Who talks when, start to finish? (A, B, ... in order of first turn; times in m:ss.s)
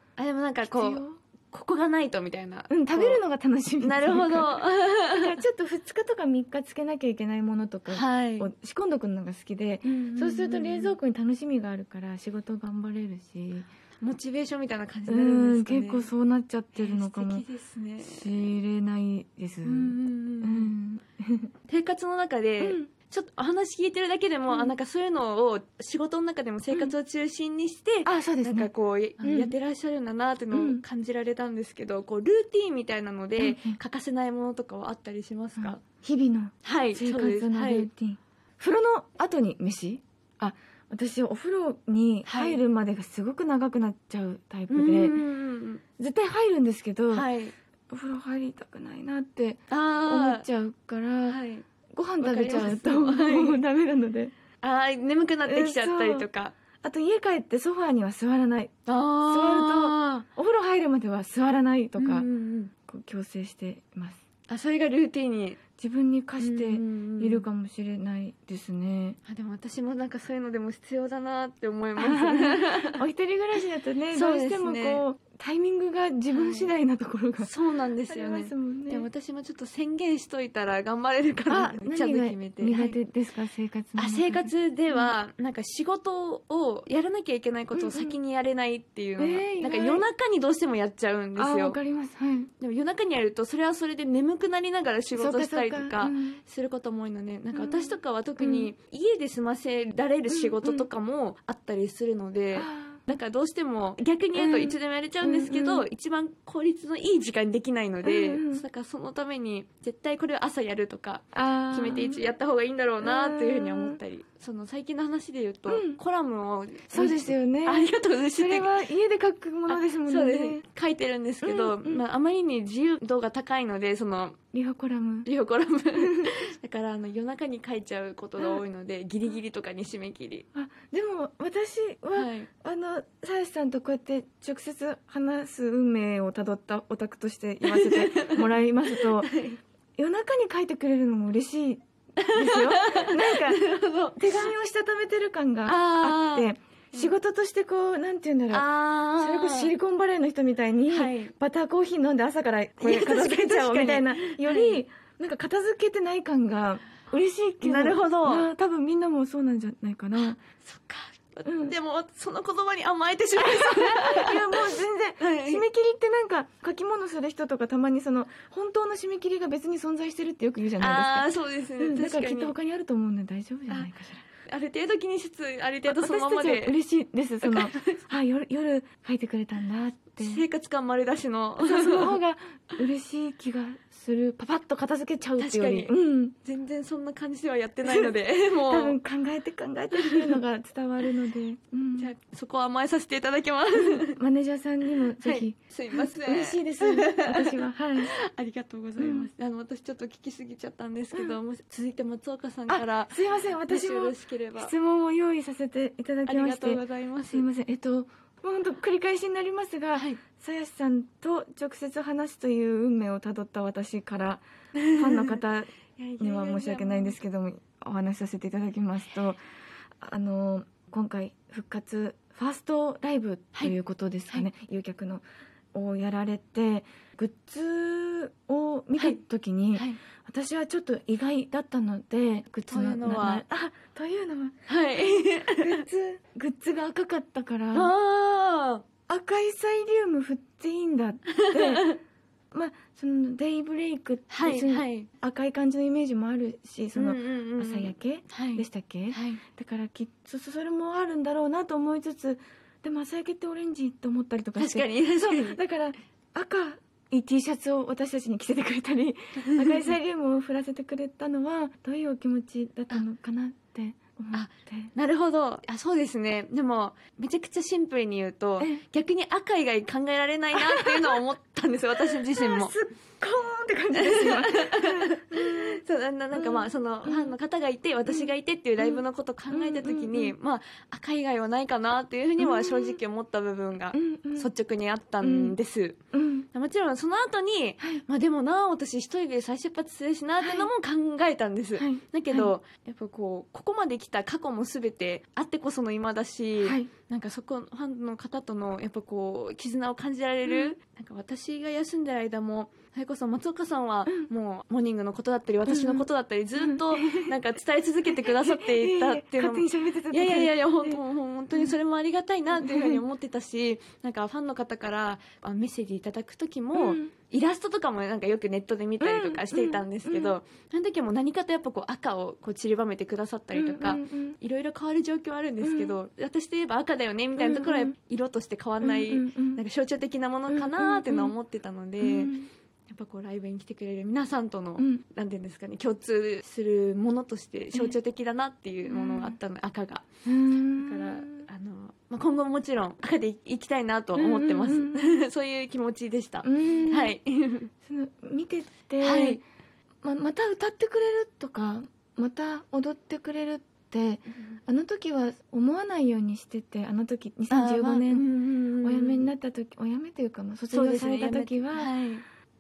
0:00.2-0:03.2 A
0:00.6-0:01.2 B
0:02.7-0:13.7 B
0:03.8-0:05.4 A
0:07.9-0:08.5 A
0:09.8-0:11.0 A
0:14.0-0:16.1 A
0:15.1-0:17.4 B
0:16.7-0:18.5 A
0:18.0-0:21.5 B
0:19.6-0:20.8 A
0:21.7-0:35.8 A
0:22.6-0:22.9 B
0:24.5-0:24.8 B
0:28.0-0:29.5 B
0:30.5-0:30.8 B
0:33.4-0:33.8 B
0:35.6-0:45.2 B
0:36.6-0:37.9 A
0:42.3-0:42.6 A
0:44.7-0:45.8 A
0:46.0-0:47.3 B
0:47.1-0:47.6 A
0:47.9-0:51.4 B
0:49.7-0:50.5 A
0:51.3-0:51.7 A
0:51.9-0:54.3 B
0:52.2-0:53.6 A
0:54.6-0:56.5 A
0:55.4-0:56.3 B
0:56.8-0:58.7 B
0:58.9-1:00.2 A
0:59.3-1:02.3 B
1:02.0-1:02.7 A
1:02.9-1:04.2 B
1:04.5-1:05.6 A
1:05.8-1:09.2 B
1:06.4-1:07.4 A
1:09.3-1:13.0 A
1:12.0-1:17.6 B
1:14.1-1:15.0 A
1:16.3-1:16.7 A
1:17.4-1:23.0 A
1:18.1-1:19.1 B
1:21.5-1:25.1 B
1:24.0-1:31.8 A
1:27.7-1:28.2 B
1:29.2-1:30.0 B
1:31.4-1:32.5 B
1:32.6-1:58.7 A
1:35.2-1:36.4 B
1:37.5-1:38.7 B
1:40.3-1:40.9 B
1:42.5-1:43.0 B
1:44.4-1:45.9 B
1:48.0-1:48.6 B
1:51.3-1:52.2 B
1:53.0-1:54.0 B
1:55.7-1:56.0 B
1:56.9-2:00.6 B
1:59.7-2:04.4 A
2:01.4-2:02.0 B
2:04.5-2:05.3 B
2:05.2-2:10.5 A
2:06.0-2:06.3 B
2:10.5-2:19.3 B
2:12.2-2:12.5 A
2:17.6-2:19.6 A
2:20.0-2:23.6 B
2:22.2-2:24.5 A
2:24.2-2:40.4 B
2:25.7-2:27.2 A
2:28.5-2:29.7 A
2:30.9-2:31.3 A
2:32.8-2:34.8 A
2:37.6-2:38.5 A
2:40.2-2:45.6 A
2:41.5-2:41.8 B
2:43.4-2:54.2 B
2:50.8-2:52.5 A
2:54.5-2:56.8 A
2:55.9-3:00.5 B
2:57.4-2:58.1 A
3:00.2-3:02.2 A
3:01.6-3:06.4 B
3:05.4-3:05.9 A
3:06.4-3:09.0 A
3:07.8-3:08.1 B
3:08.7-3:12.1 B
3:09.9-3:10.4 A
3:12.0-3:14.2 A
3:13.8-3:18.2 B
3:15.2-3:24.7 A
3:19.0-3:19.3 B
3:22.7-3:39.4 B
3:26.3-3:27.5 A
3:30.0-3:30.2 A
3:34.8-3:35.4 A
3:36.0-3:37.2 A
3:40.0-3:54.6 B
3:49.7-3:50.0 A
3:52.7-3:53.4 A
3:54.7-3:55.8 A
3:55.5-3:57.9 B
3:57.7-3:58.8 A
3:59.1-4:01.9 B
4:01.3-4:02.0 A
4:02.5-4:24.9 B
4:04.3-4:05.1 A
4:07.0-4:09.4 A
4:14.6-4:15.6 A
4:19.4-4:19.9 A
4:24.3-4:32.7 A
4:30.5-4:31.2 B
4:32.1-4:35.8 B
4:33.9-4:46.0 A
4:36.3-4:37.4 B
4:38.1-4:40.4 B
4:42.4-4:43.0 B
4:43.9-4:44.5 B
4:45.2-4:45.6 B
4:46.1-4:46.5 B
4:46.5-5:32.3 A
4:50.4-4:50.7 B
4:51.8-4:52.5 B
4:56.6-4:56.9 B
5:00.4-5:00.8 B
5:05.7-5:07.3 B
5:08.1-5:11.0 B
5:12.6-5:13.0 B
5:16.8-5:17.1 B
5:19.0-5:20.4 B
5:23.5-5:24.4 B
5:25.6-5:26.0 B
5:27.4-5:27.9 B
5:28.8-5:29.6 B
5:30.5-5:31.4 B
5:32.0-5:32.5 B
5:32.9-5:40.0 A
5:34.8-5:35.0 B
5:38.8-5:39.4 B
5:40.2-5:41.5 B
5:40.8-5:47.7 A
5:44.2-5:45.2 B
5:46.4-5:47.2 B
5:47.8-5:49.4 B
5:49.0-5:49.4 A
5:50.0-5:58.3 B
5:57.5-5:59.3 A
5:58.8-6:01.9 B
6:00.7-6:02.2 A